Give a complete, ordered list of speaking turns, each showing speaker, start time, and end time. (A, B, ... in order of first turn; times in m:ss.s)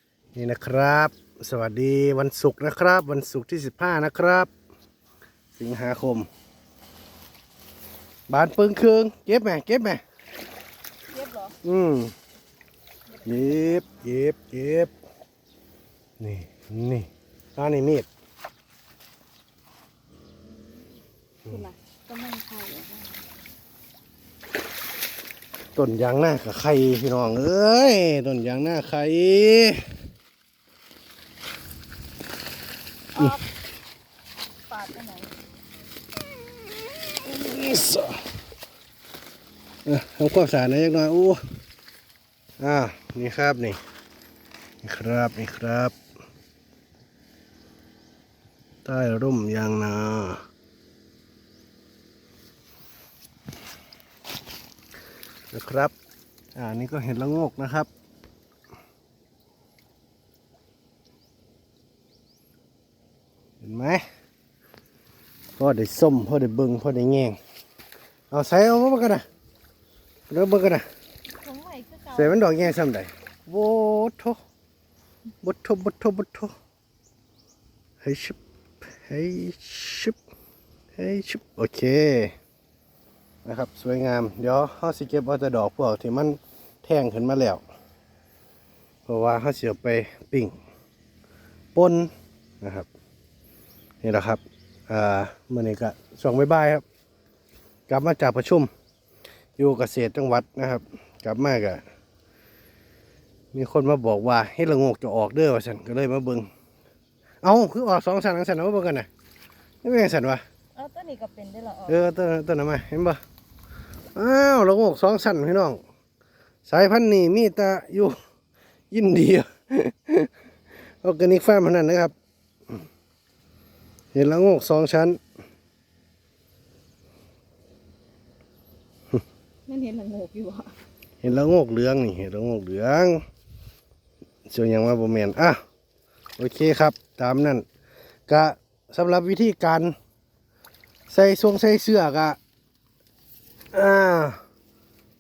0:00.3-0:04.5 A
0:05.6-0:06.3 A
0:08.3-0:10.0 A
0:11.1-0:11.5 B
0:11.6-0:12.1 A
0:13.2-0:14.9 A
0:13.3-0:13.9 B
0:16.2-0:18.1 A
0:21.4-0:23.2 B
0:25.8-0:29.9 A
0:33.1-0:33.4 B
0:34.7-0:35.3 B
0:37.2-0:38.2 A
0:39.8-0:41.4 A
0:42.6-0:43.8 A
0:44.8-0:45.9 A
0:48.8-0:50.4 A
0:55.5-0:55.9 A
0:56.5-0:57.9 A
1:03.6-1:04.0 A
1:05.6-1:07.4 A
1:08.3-1:09.2 A
1:10.3-1:10.8 A
1:11.3-1:12.4 B
1:12.1-1:14.4 A
1:15.4-1:16.5 A
1:18.0-1:18.4 A
1:19.0-1:20.2 A
1:21.0-1:22.3 A
1:23.4-1:27.6 A
1:29.1-1:30.5 A
1:31.7-1:32.1 A
1:32.6-1:32.9 A
1:34.0-1:36.8 A
1:37.9-1:38.7 A
1:39.6-1:41.8 A
1:43.5-1:46.5 A
1:47.4-1:49.1 A
1:49.8-1:50.4 A
1:50.8-1:52.0 B
1:51.9-1:53.2 A
1:54.1-1:55.8 A
1:56.6-1:58.2 A
1:58.9-2:00.3 A
2:01.0-2:02.1 A
2:04.1-2:05.2 A
2:09.7-2:10.7 B
2:11.2-2:13.2 A
2:14.5-2:15.6 A
2:16.4-2:17.6 A
2:18.3-2:19.9 A
2:21.1-2:22.4 A
2:23.7-2:24.4 A